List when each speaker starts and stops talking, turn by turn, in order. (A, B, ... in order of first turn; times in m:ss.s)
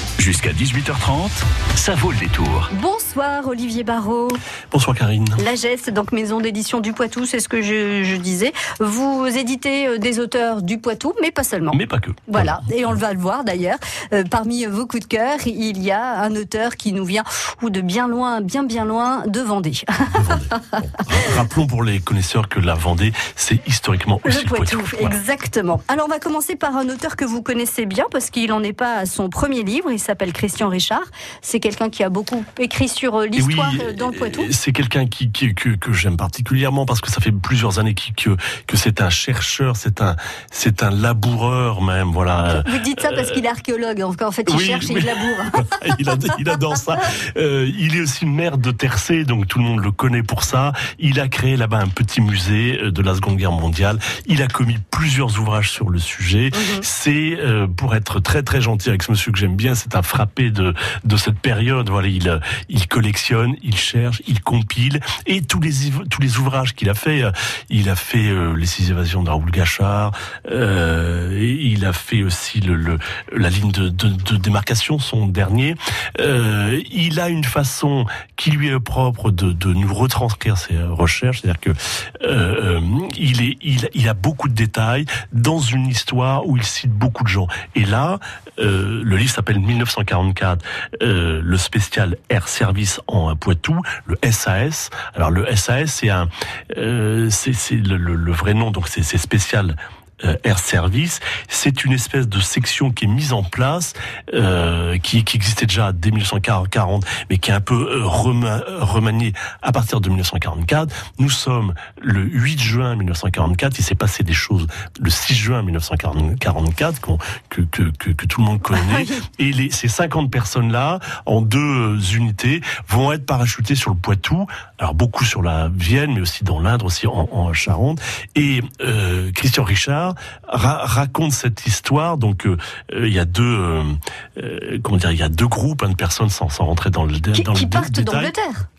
0:00.2-0:02.7 A
0:02.7-0:04.4 B
0:04.7-0:05.4 C
0:05.4-0:20.5 B
0:11.7-0:12.6 C
0:20.1-0:25.2 C
0:24.2-0:34.5 B
0:33.3-0:43.4 C
0:42.5-0:46.0 B
0:44.5-2:18.3 C
0:56.5-0:56.8 B
1:58.7-1:59.2 B
2:17.3-2:18.7 B